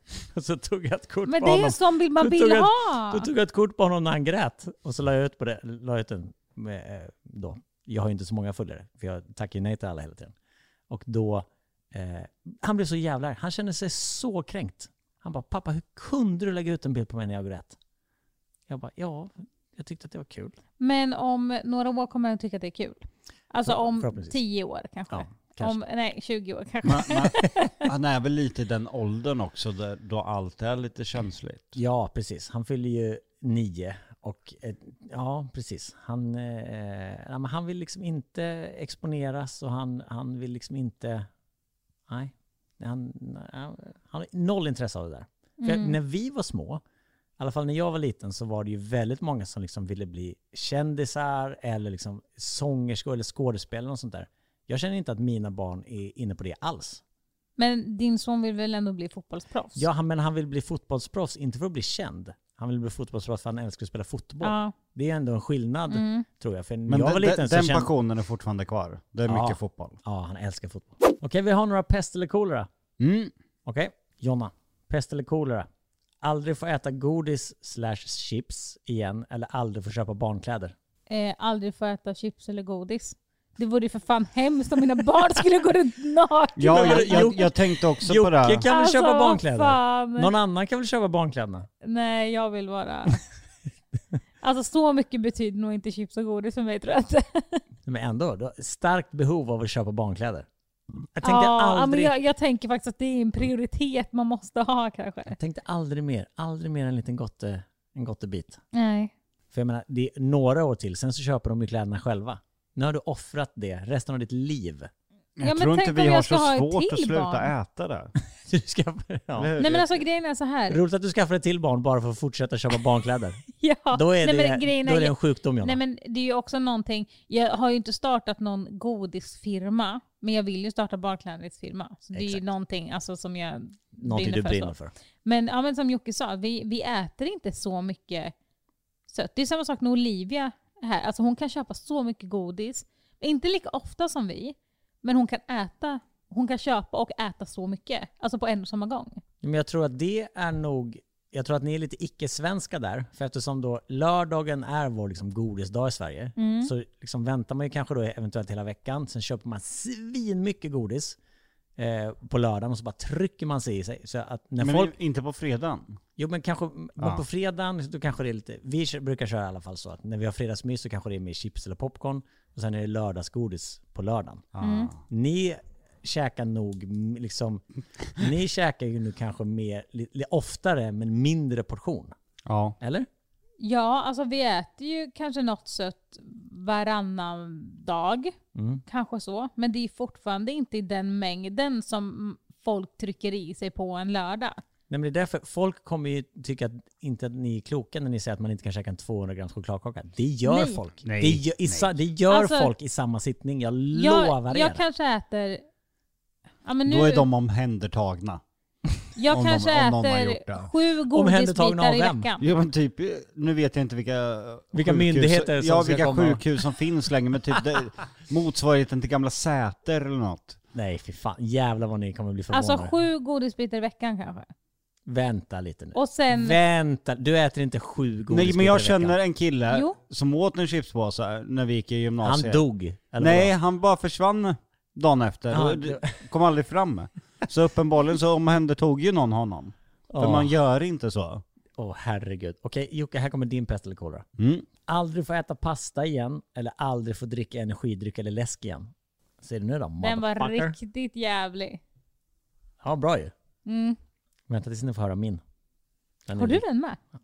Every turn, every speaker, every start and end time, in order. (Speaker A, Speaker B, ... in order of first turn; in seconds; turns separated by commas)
Speaker A: 0.3-10.3, Speaker B: 1.3-3.3, Speaker A: 10.9-17.8, Speaker A: 18.7-20.6, Speaker B: 20.8-27.9, Speaker A: 23.6-24.4, Speaker A: 25.1-25.8, Speaker C: 26.8-31.8, Speaker A: 31.7-41.3, Speaker A: 42.1-46.8, Speaker B: 45.6-46.0, Speaker A: 47.4-57.0, Speaker B: 57.6-59.8, Speaker A: 59.8-67.9, Speaker B: 64.4-64.7, Speaker B: 65.9-66.3, Speaker C: 66.9-70.0, Speaker A: 69.3-72.7, Speaker C: 73.0-73.3, Speaker A: 73.6-75.7, Speaker A: 76.2-80.7, Speaker B: 81.1-87.5, Speaker C: 86.6-88.7, Speaker A: 86.6-91.7, Speaker B: 88.7-90.3, Speaker B: 91.8-93.2, Speaker B: 94.4-97.6, Speaker A: 97.8-100.5, Speaker A: 101.1-102.1, Speaker B: 101.2-105.4, Speaker A: 105.3-108.6, Speaker B: 108.7-109.1, Speaker A: 109.5-114.9, Speaker C: 115.4-118.1, Speaker B: 115.4-117.5, Speaker A: 118.5-119.5, Speaker C: 119.3-120.0, Speaker B: 119.6-120.8, Speaker A: 120.7-123.4, Speaker B: 123.6-134.7, Speaker A: 123.9-125.8, Speaker A: 132.1-132.4, Speaker A: 134.0-134.9, Speaker B: 135.2-138.3, Speaker B: 139.1-149.2, Speaker A: 149.4-161.2, Speaker B: 156.4-156.7, Speaker A: 161.8-164.9, Speaker C: 164.6-166.0, Speaker A: 166.2-174.4, Speaker C: 174.6-175.0, Speaker B: 174.6-174.9, Speaker A: 175.1-177.6, Speaker A: 178.1-182.2, Speaker C: 182.4-182.8, Speaker A: 182.8-183.1, Speaker B: 183.6-188.4, Speaker A: 188.6-188.8, Speaker B: 188.9-194.6, Speaker A: 194.9-204.8, Speaker B: 200.4-200.8, Speaker C: 201.0-201.9, Speaker B: 202.3-202.7, Speaker B: 203.9-205.6, Speaker B: 206.6-207.3, Speaker C: 206.9-208.4, Speaker B: 209.2-212.5, Speaker C: 209.3-210.7, Speaker A: 211.1-212.3, Speaker C: 212.4-220.6, Speaker A: 214.7-216.4, Speaker A: 220.7-222.9, Speaker B: 222.5-224.5, Speaker A: 225.1-229.2, Speaker B: 225.9-226.6, Speaker C: 228.3-232.6, Speaker B: 229.7-229.9, Speaker A: 232.2-233.5, Speaker C: 233.2-241.4, Speaker A: 235.5-236.2, Speaker A: 240.1-240.5, Speaker A: 241.8-244.3, Speaker C: 244.4-244.7, Speaker A: 244.9-250.7, Speaker B: 250.0-251.8, Speaker A: 252.8-253.3, Speaker B: 253.7-254.0, Speaker A: 254.5-255.4, Speaker A: 256.3-256.6, Speaker B: 256.4-257.0